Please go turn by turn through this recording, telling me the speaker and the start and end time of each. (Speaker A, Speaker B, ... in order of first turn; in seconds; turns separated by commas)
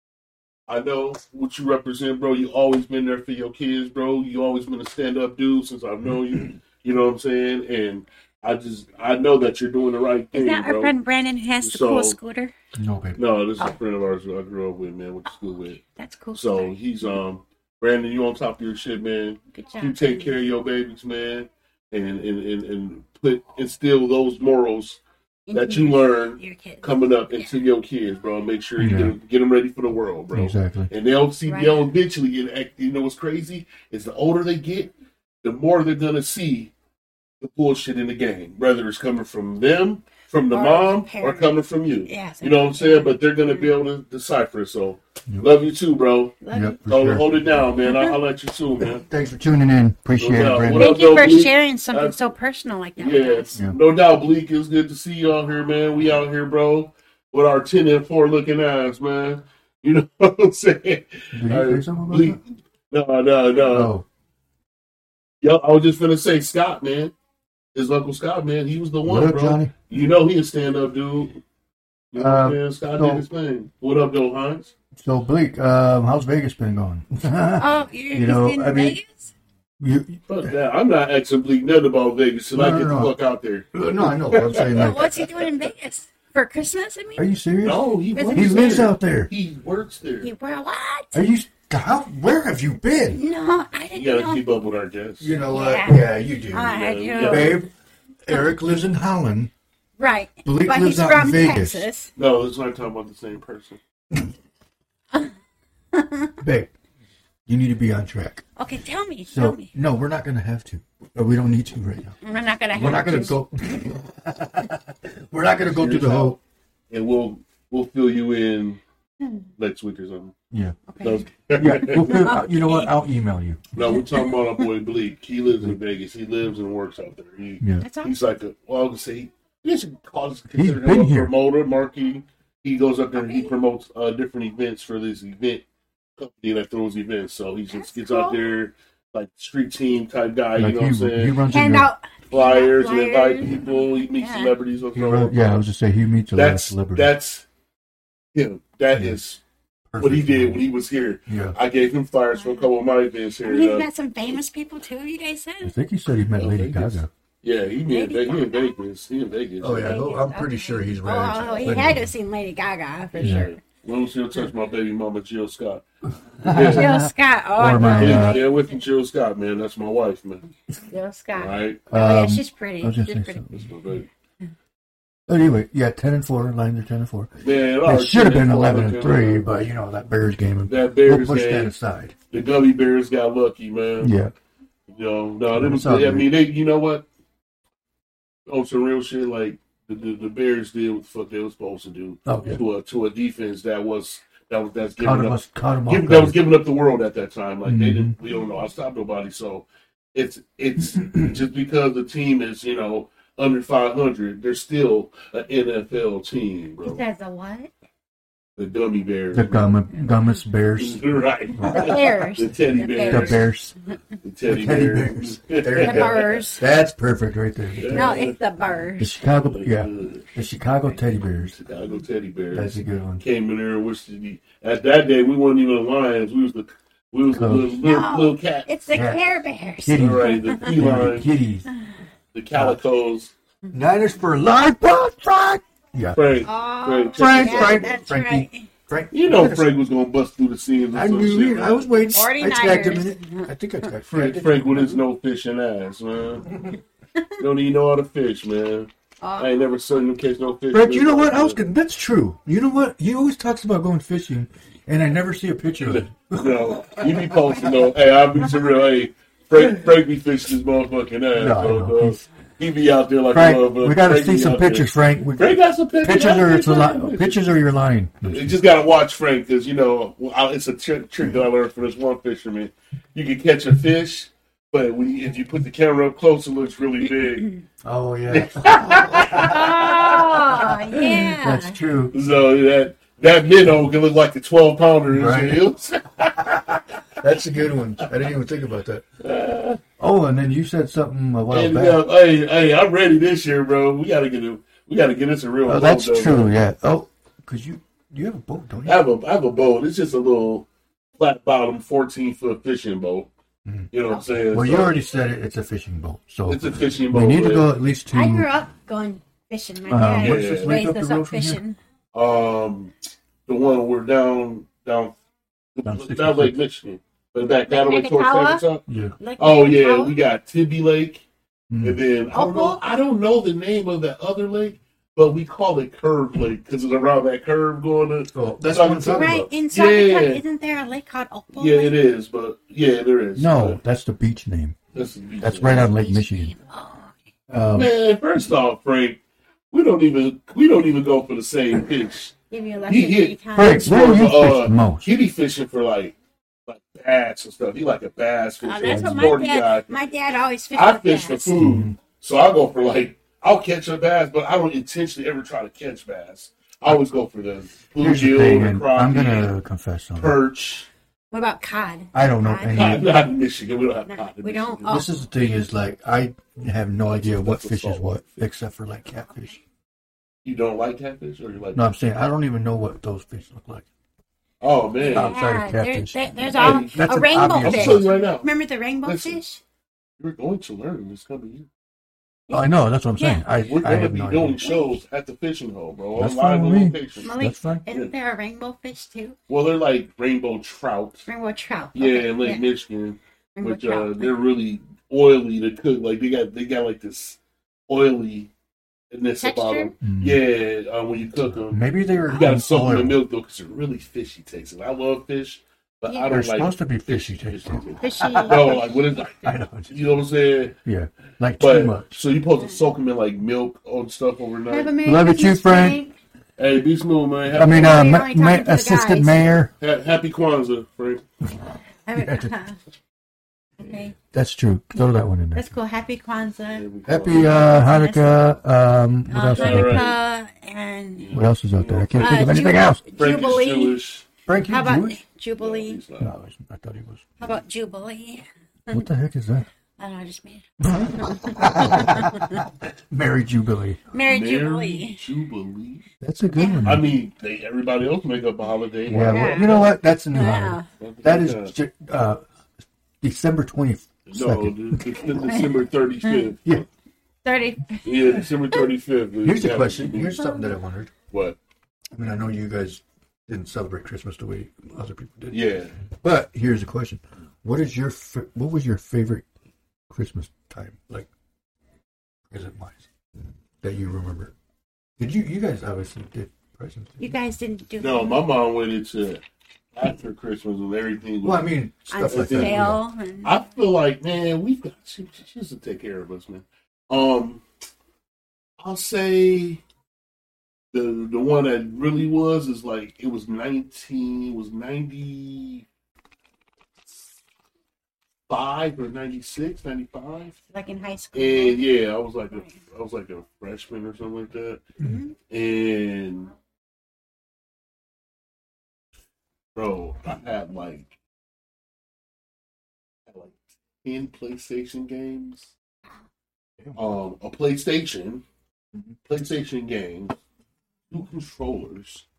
Speaker A: 0.7-10.9, Speaker B: 10.3-12.5, Speaker A: 11.6-12.2, Speaker C: 12.8-13.2, Speaker A: 13.2-15.8, Speaker B: 15.8-16.8, Speaker A: 16.3-25.0, Speaker B: 19.5-20.3, Speaker B: 25.5-27.6, Speaker A: 25.5-36.7, Speaker C: 28.8-29.2, Speaker C: 30.3-30.9, Speaker B: 31.5-31.9, Speaker A: 37.4-49.1, Speaker B: 40.5-43.7, Speaker C: 45.3-45.5, Speaker B: 46.4-46.8, Speaker C: 46.5-47.6, Speaker B: 47.8-48.2, Speaker C: 48.8-51.1, Speaker A: 50.2-52.2, Speaker B: 50.7-53.6, Speaker A: 53.0-63.9, Speaker C: 61.3-62.4, Speaker C: 63.7-64.1, Speaker A: 65.4-67.1, Speaker A: 67.8-71.4, Speaker C: 69.0-69.7, Speaker A: 72.1-74.7, Speaker C: 72.2-73.2, Speaker C: 75.0-79.0, Speaker B: 77.6-79.3, Speaker C: 79.8-80.5, Speaker A: 80.3-85.4, Speaker C: 82.5-83.2, Speaker C: 83.7-85.2, Speaker B: 84.6-87.3, Speaker C: 87.2-89.3, Speaker A: 87.6-90.3, Speaker B: 88.2-88.9, Speaker B: 90.2-91.2, Speaker C: 91.1-93.2, Speaker B: 93.1-94.5, Speaker A: 93.9-95.4, Speaker C: 95.2-97.7, Speaker B: 95.5-97.7, Speaker A: 96.6-97.6, Speaker C: 98.3-99.5, Speaker B: 100.0-102.1, Speaker C: 100.5-101.9, Speaker A: 102.2-103.8, Speaker B: 105.9-106.3, Speaker C: 106.4-106.7, Speaker C: 107.5-108.5, Speaker B: 108.6-109.7, Speaker C: 109.3-112.2, Speaker B: 112.2-113.4, Speaker C: 112.7-116.4, Speaker A: 115.7-116.4, Speaker A: 116.9-118.8, Speaker A: 119.6-120.3, Speaker C: 120.5-120.8, Speaker B: 120.9-121.2, Speaker A: 121.0-122.3, Speaker C: 121.6-123.6, Speaker B: 121.8-122.9, Speaker A: 123.7-135.7, Speaker B: 123.8-124.7, Speaker C: 127.6-127.9, Speaker B: 127.8-128.2, Speaker C: 130.6-131.3, Speaker A: 136.2-141.4, Speaker B: 137.7-138.4, Speaker C: 140.6-141.9, Speaker B: 141.5-144.5, Speaker A: 142.3-145.6, Speaker C: 144.9-147.1, Speaker A: 146.3-147.5, Speaker A: 148.3-149.4, Speaker C: 148.9-149.2, Speaker C: 149.9-150.7, Speaker A: 150.0-153.9, Speaker C: 151.3-151.6, Speaker B: 152.4-152.7, Speaker B: 153.4-155.8, Speaker C: 155.6-157.1, Speaker A: 156.4-160.1, Speaker B: 157.9-158.7, Speaker C: 159.6-162.1, Speaker B: 159.8-163.6, Speaker C: 163.2-163.5, Speaker A: 163.2-165.8, Speaker C: 166.3-168.4, Speaker A: 166.4-167.0, Speaker B: 166.6-168.8, Speaker A: 167.8-170.4, Speaker B: 170.9-173.6, Speaker A: 171.3-171.8, Speaker C: 171.9-173.6, Speaker A: 173.5-174.1, Speaker C: 175.3-182.2, Speaker A: 177.4-179.6, Speaker A: 180.7-181.7, Speaker A: 182.3-184.1, Speaker C: 184.0-184.3, Speaker A: 184.9-187.1, Speaker C: 185.5-186.3, Speaker A: 188.5-207.0, Speaker C: 192.3-192.6, Speaker C: 195.0-196.4, Speaker C: 197.7-198.1, Speaker B: 206.8-207.7, Speaker A: 208.6-209.8, Speaker C: 209.3-211.0, Speaker A: 210.8-213.4, Speaker C: 211.6-212.2, Speaker B: 211.7-213.5, Speaker C: 213.1-213.8, Speaker A: 214.2-216.4, Speaker C: 214.5-218.2, Speaker B: 215.8-216.6, Speaker A: 217.8-218.4, Speaker B: 217.9-219.2, Speaker C: 219.0-221.6, Speaker A: 219.4-220.3, Speaker A: 221.4-228.7, Speaker C: 222.5-223.2, Speaker C: 227.3-227.8, Speaker B: 227.8-230.8, Speaker C: 228.9-229.2, Speaker C: 229.8-231.7, Speaker A: 229.9-231.3, Speaker A: 232.3-233.3, Speaker C: 233.7-236.4, Speaker A: 236.2-238.1, Speaker B: 236.4-238.7, Speaker C: 237.2-239.7, Speaker A: 239.1-242.1, Speaker C: 240.9-245.0, Speaker B: 242.1-243.5, Speaker A: 244.1-246.6, Speaker C: 246.5-246.8, Speaker A: 247.4-251.6, Speaker B: 249.2-249.6, Speaker C: 250.7-257.8, Speaker A: 255.8-267.4, Speaker C: 261.4-262.2, Speaker C: 263.3-268.6, Speaker A: 268.3-277.5, Speaker C: 277.8-279.8, Speaker A: 278.3-280.8, Speaker B: 279.3-281.8, Speaker C: 280.9-282.1, Speaker A: 282.1-287.0, Speaker C: 285.1-285.6, Speaker C: 287.2-289.1, Speaker A: 289.2-289.8, Speaker C: 290.0-292.0, Speaker A: 291.5-296.5, Speaker C: 295.7-299.0, Speaker A: 298.9-300.7, Speaker A: 301.2-303.3, Speaker C: 303.6-303.9, Speaker A: 303.9-305.0, Speaker C: 304.5-308.5, Speaker A: 306.5-307.7, Speaker B: 308.1-311.8, Speaker C: 309.9-311.6, Speaker A: 310.2-310.8, Speaker A: 312.1-312.9, Speaker A: 313.5-315.2, Speaker A: 315.8-318.8, Speaker C: 315.9-316.6, Speaker B: 317.7-318.7, Speaker C: 318.9-319.1, Speaker B: 319.2-320.2, Speaker A: 319.4-321.2, Speaker C: 321.7-322.0, Speaker A: 321.8-330.4, Speaker B: 322.3-322.8, Speaker C: 328.3-329.5, Speaker B: 329.1-332.0, Speaker A: 331.5-333.8, Speaker C: 333.4-334.8, Speaker A: 334.9-335.9, Speaker C: 335.4-336.5, Speaker B: 335.6-337.1, Speaker C: 337.5-337.9, Speaker A: 337.7-339.2, Speaker A: 339.7-342.4, Speaker B: 342.5-344.2, Speaker A: 342.9-349.9, Speaker C: 343.5-345.1, Speaker B: 348.6-351.7, Speaker C: 348.8-349.4, Speaker A: 350.7-359.5, Speaker C: 351.6-352.0, Speaker C: 358.0-360.4, Speaker A: 360.2-360.9, Speaker B: 361.3-363.1, Speaker C: 362.1-363.1, Speaker A: 362.7-365.1, Speaker B: 364.1-365.1, Speaker C: 364.9-369.6, Speaker A: 367.1-368.1, Speaker A: 370.4-371.9, Speaker C: 371.8-373.9, Speaker A: 374.6-375.4, Speaker B: 375.0-379.6, Speaker C: 375.1-378.1, Speaker A: 376.5-378.5, Speaker A: 379.1-379.5, Speaker A: 380.2-381.7, Speaker B: 382.5-383.5, Speaker C: 382.5-384.9, Speaker A: 383.6-387.3, Speaker C: 386.2-387.9, Speaker B: 387.2-389.4, Speaker A: 389.5-391.3, Speaker B: 391.3-392.7, Speaker A: 391.9-398.5, Speaker B: 393.6-394.3, Speaker A: 399.1-410.8, Speaker B: 399.4-399.9, Speaker C: 400.0-400.4, Speaker C: 401.6-403.2, Speaker B: 406.1-406.4, Speaker C: 406.3-408.8, Speaker B: 408.0-409.0, Speaker C: 409.4-410.1, Speaker C: 410.8-412.2, Speaker A: 411.6-414.9, Speaker B: 414.7-416.1, Speaker C: 415.0-416.0, Speaker A: 416.6-418.1, Speaker C: 417.5-419.7, Speaker B: 417.6-419.6, Speaker A: 419.8-421.2, Speaker B: 422.1-422.8, Speaker C: 422.1-422.5, Speaker B: 423.8-424.1, Speaker C: 424.3-425.7, Speaker B: 425.6-428.5, Speaker A: 426.7-427.7, Speaker C: 427.1-430.1, Speaker B: 429.3-431.4, Speaker A: 429.5-430.2, Speaker A: 431.2-432.5, Speaker C: 431.3-433.0, Speaker B: 432.1-434.0, Speaker A: 433.2-434.3, Speaker C: 434.5-435.2, Speaker B: 434.7-436.0, Speaker A: 435.6-436.3, Speaker C: 436.2-437.2, Speaker B: 437.4-439.0, Speaker C: 438.9-439.7, Speaker B: 440.0-440.6, Speaker C: 440.8-444.0, Speaker B: 441.2-442.6, Speaker B: 444.1-445.2, Speaker A: 444.2-446.1, Speaker C: 446.2-447.1, Speaker B: 446.6-447.0, Speaker A: 446.8-449.9, Speaker C: 449.1-452.4, Speaker B: 449.2-449.8, Speaker B: 450.3-450.9, Speaker A: 451.0-451.7, Speaker C: 453.2-455.3, Speaker A: 454.3-456.8, Speaker B: 457.4-458.5, Speaker A: 458.0-460.4, Speaker C: 459.4-461.1, Speaker A: 461.3-461.6, Speaker C: 462.1-469.4, Speaker A: 465.5-465.9, Speaker C: 470.1-471.3, Speaker C: 472.5-473.1, Speaker C: 473.8-474.5, Speaker C: 475.2-477.4, Speaker B: 477.2-478.4, Speaker A: 478.0-479.4, Speaker A: 479.9-481.7, Speaker C: 481.4-483.0, Speaker B: 482.1-483.6, Speaker A: 482.3-482.9, Speaker A: 483.4-487.6, Speaker A: 488.8-489.8, Speaker A: 490.9-495.9, Speaker A: 498.5-500.6, Speaker B: 500.7-502.0, Speaker A: 501.3-504.8, Speaker B: 505.0-505.4, Speaker A: 505.5-506.5, Speaker A: 509.8-511.2, Speaker A: 513.3-515.7, Speaker A: 517.0-518.4, Speaker A: 519.2-520.4, Speaker A: 521.1-522.3